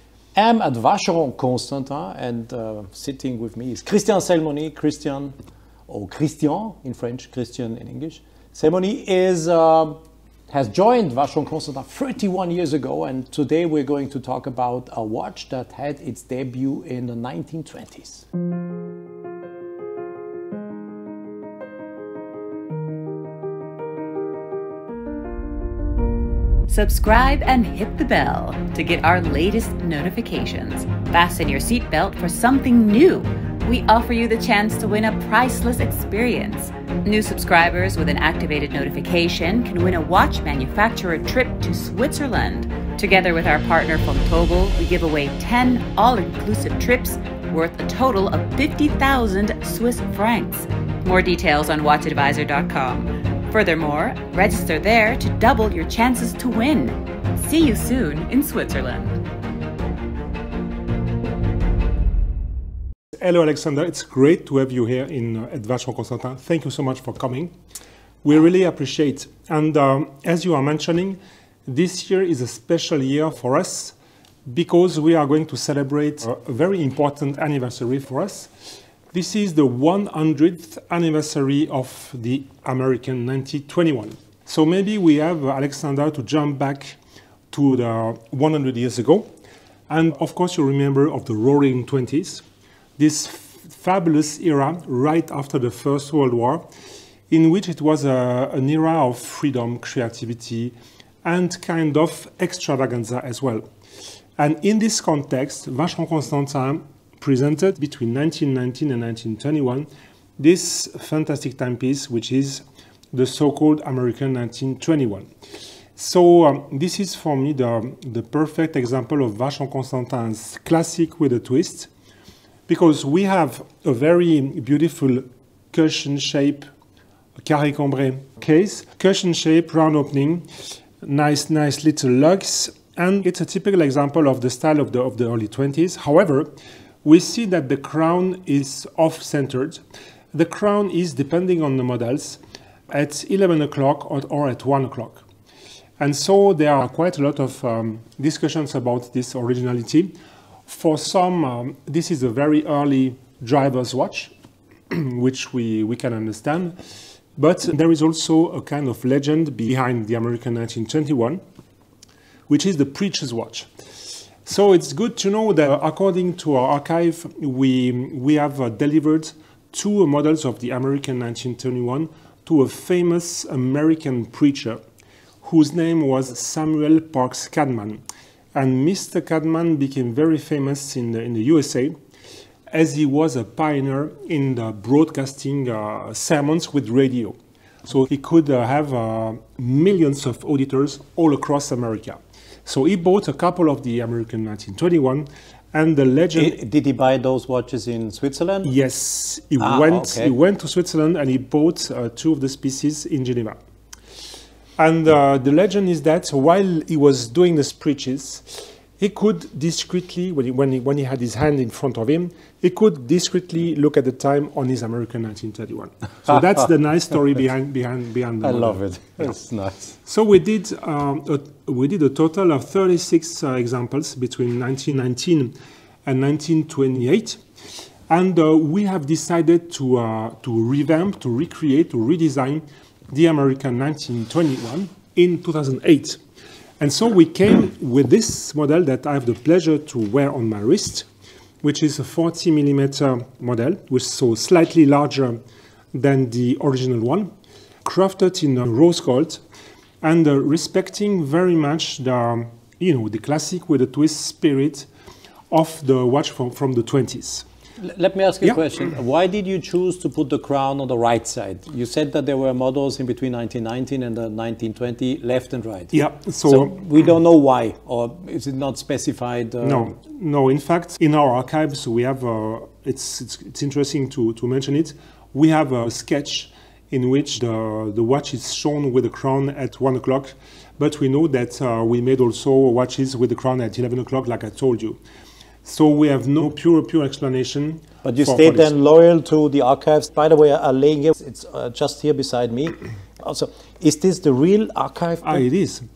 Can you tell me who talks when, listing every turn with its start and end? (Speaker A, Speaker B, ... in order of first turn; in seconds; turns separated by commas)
Speaker A: 0.3-5.3, Speaker A: 5.9-10.0, Speaker A: 10.5-18.2, Speaker B: 26.7-59.2, Speaker C: 63.2-67.5, Speaker C: 68.2-73.9, Speaker C: 74.5-78.5, Speaker C: 79.1-87.0, Speaker C: 87.5-89.3, Speaker C: 89.9-92.4, Speaker C: 93.0-96.7, Speaker C: 97.3-103.6, Speaker C: 104.4-115.3, Speaker C: 116.0-121.9, Speaker C: 122.7-126.7, Speaker C: 127.4-130.4, Speaker C: 131.0-136.5, Speaker C: 137.0-139.8, Speaker C: 140.3-145.2, Speaker C: 146.0-150.1, Speaker C: 150.7-154.3, Speaker C: 154.9-156.8, Speaker C: 157.3-161.4, Speaker C: 162.5-163.7, Speaker C: 164.4-174.8, Speaker C: 175.4-181.9, Speaker C: 182.7-187.3, Speaker C: 187.8-196.6, Speaker A: 196.3-198.7, Speaker C: 198.6-203.6, Speaker A: 199.6-200.3, Speaker C: 204.8-219.3, Speaker A: 218.4-220.0, Speaker C: 220.1-227.4, Speaker C: 228.1-236.2, Speaker C: 236.8-241.1, Speaker C: 241.6-245.4, Speaker C: 245.9-247.3, Speaker C: 247.8-249.4, Speaker C: 250.0-254.9, Speaker C: 255.5-257.4, Speaker A: 257.8-265.9, Speaker C: 265.9-266.8, Speaker A: 266.4-269.9, Speaker C: 269.6-285.0, Speaker C: 285.6-288.7, Speaker A: 288.0-295.4, Speaker C: 295.2-295.9